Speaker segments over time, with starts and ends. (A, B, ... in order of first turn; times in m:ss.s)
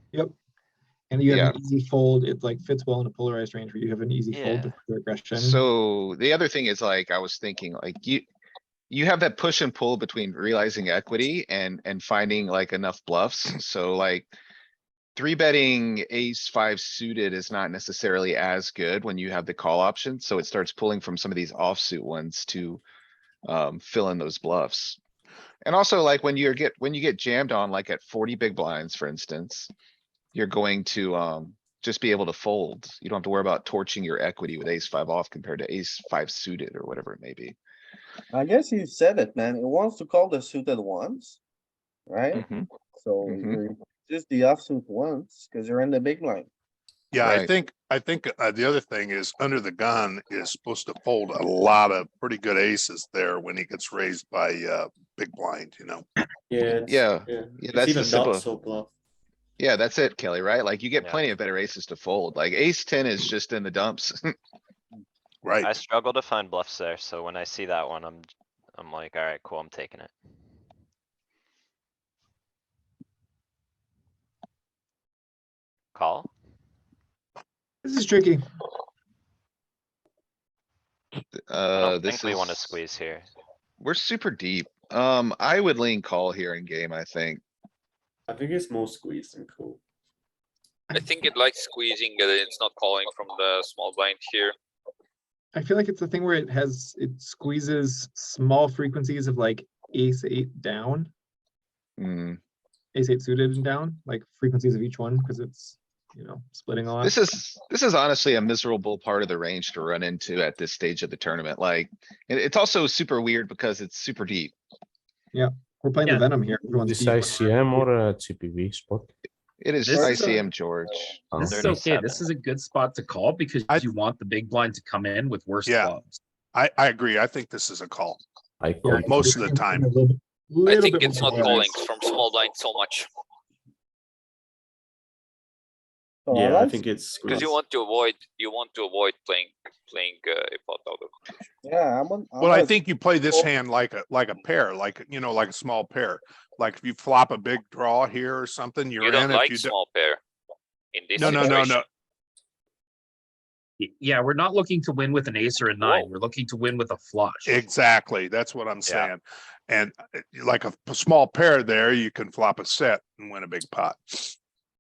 0:01.1-0:05.6 A
0:01.3-0:01.6 B
0:04.3-0:04.7 C
0:05.3-0:08.3 B
0:08.9-0:14.3 B
0:15.2-0:22.8 B
0:23.5-0:25.0 B
0:25.6-0:29.7 B
0:30.4-0:37.6 B
0:38.3-0:41.4 D
0:42.1-0:46.5 D
0:42.3-0:42.7 B
0:43.3-0:43.6 B
0:47.1-0:56.0 E
0:47.2-0:47.5 B
0:56.5-0:58.9 F
0:56.9-0:58.5 B
0:59.6-1:04.4 B
1:05.4-1:05.7 E
1:05.6-1:10.1 C
1:15.9-1:16.3 C
1:17.8-1:18.4 A
1:21.5-1:22.8 B
1:21.8-1:23.3 C
1:23.8-1:27.4 B
1:28.3-1:29.8 F
1:30.9-1:34.5 G
1:35.5-1:41.1 A
1:42.0-1:42.4 B
1:42.9-1:47.2 A
1:47.0-1:54.5 B
1:55.3-1:57.9 A
1:56.0-1:56.4 H
1:56.8-1:59.1 I
1:59.6-2:01.1 B
1:59.8-2:00.4 H
2:00.1-2:00.4 A
2:01.3-2:01.6 I
2:01.4-2:06.2 H
2:01.4-2:02.3 C
2:05.7-2:05.9 E
2:06.5-2:08.2 E
2:08.6-2:09.1 I
2:08.8-2:11.9 A
2:09.0-2:09.9 E
2:10.7-2:13.1 G
2:16.3-2:16.8 D
2:16.3-2:17.5 F
2:17.2-2:21.3 G
2:21.6-2:22.8 D
2:22.4-2:29.7 E
2:29.0-2:30.2 G
2:30.9-2:31.8 G
2:31.2-2:31.9 E
2:33.8-2:37.7 H
2:35.8-2:36.1 G
2:37.5-2:44.4 E